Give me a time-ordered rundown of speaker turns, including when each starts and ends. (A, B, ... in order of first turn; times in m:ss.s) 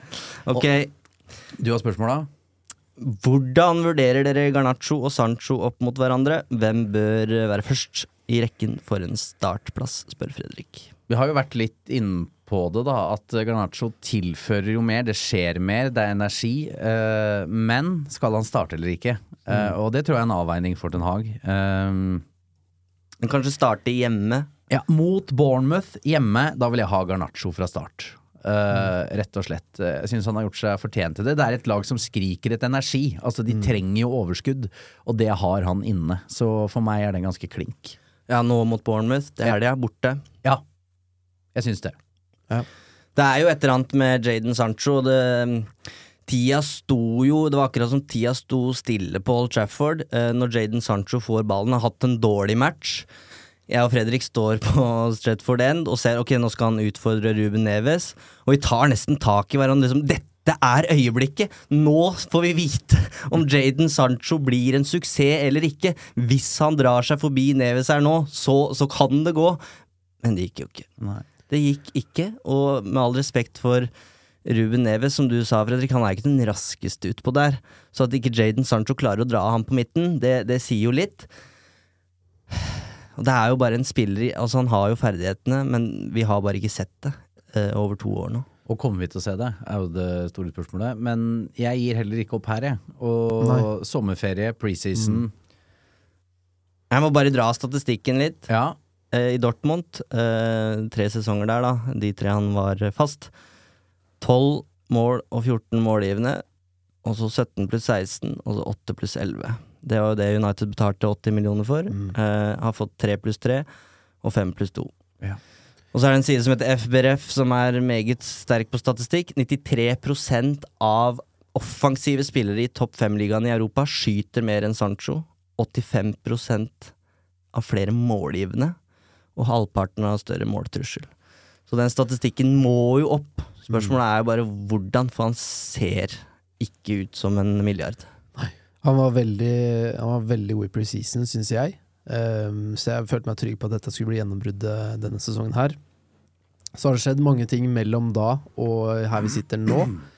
0:00.4-0:00.9 A
0:01.5-0:02.3 B
0:03.0-0:10.9 A
0:11.1-0:22.2 B
0:23.2-0:24.5 A
0:24.7-0:38.0 B
0:38.3-0:40.2 A
0:41.5-0:42.0 B
0:43.2-0:45.7 A
0:46.3-0:53.1 A
0:53.7-1:09.6 A
1:10.2-1:10.9 A
1:11.0-1:11.2 B
1:11.5-1:13.9 A
1:14.4-1:21.3 A
1:22.5-1:28.4 A
1:28.6-1:35.3 B
1:33.4-1:33.7 C
1:35.0-1:35.2 C
1:36.9-1:38.5 A
1:38.5-1:38.8 B
1:39.1-1:43.3 A
1:44.2-1:46.4 A
1:47.0-1:53.7 A
1:54.2-1:54.9 A
1:55.9-2:06.9 A
2:07.5-2:08.8 A
2:09.4-2:11.1 A
2:11.7-2:18.1 A
2:18.4-2:25.8 C
2:26.8-2:30.0 C